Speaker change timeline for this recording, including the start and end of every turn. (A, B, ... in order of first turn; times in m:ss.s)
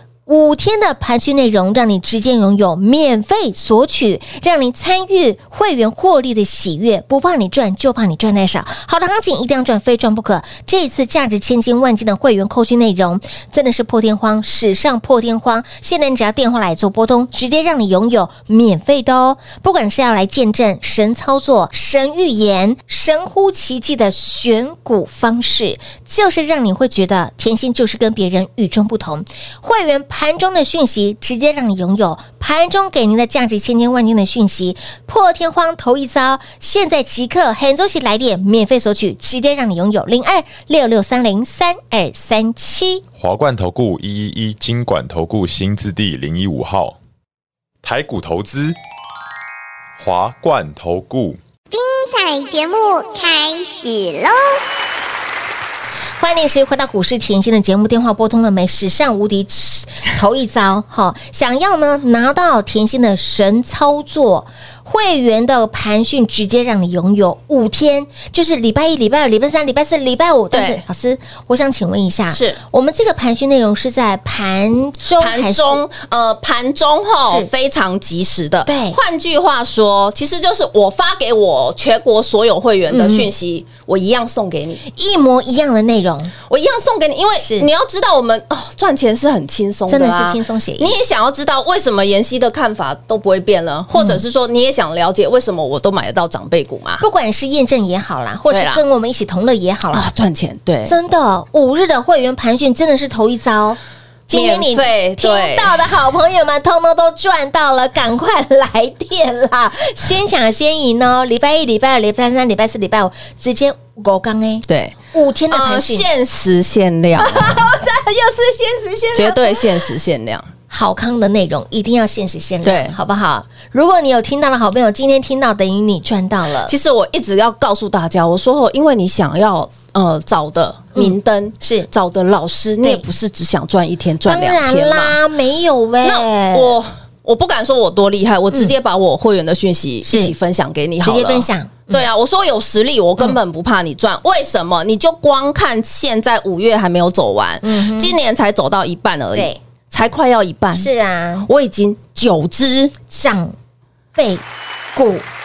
0:00.3-0:43.0 A
0:43.2-0:47.0 B
0:47.8-0:48.8 B
0:50.0-0:51.4 B
0:51.7-0:54.6 C
0:56.2-1:15.8 A
1:10.5-1:10.8 D
1:12.3-1:12.6 D
1:15.2-1:24.8 D
1:17.2-1:17.5 A
1:18.6-1:19.0 A
1:22.9-1:23.3 A
1:24.8-1:26.3 A
1:26.5-1:37.0 D
1:27.4-1:27.7 A
1:29.9-1:31.0 A
1:33.9-1:34.2 A
1:37.0-1:40.1 A
1:38.5-1:38.8 D
1:39.9-1:41.0 D
1:40.8-1:56.1 A
1:44.3-1:45.7 D
1:54.7-1:55.0 D
1:55.5-1:57.6 D
1:57.2-1:59.9 A
1:59.1-2:00.5 D
2:00.7-2:06.7 A
2:02.6-2:03.0 D
2:06.6-2:15.2 D
2:10.9-2:11.9 A
2:14.2-2:16.8 A
2:16.0-2:30.9 D
2:20.0-2:20.3 A
2:21.0-2:22.0 A
2:27.6-2:28.2 A
2:29.3-2:29.6 A
2:30.7-2:31.5 A
2:31.4-2:32.9 D
2:33.1-2:33.5 A
2:34.2-2:35.3 A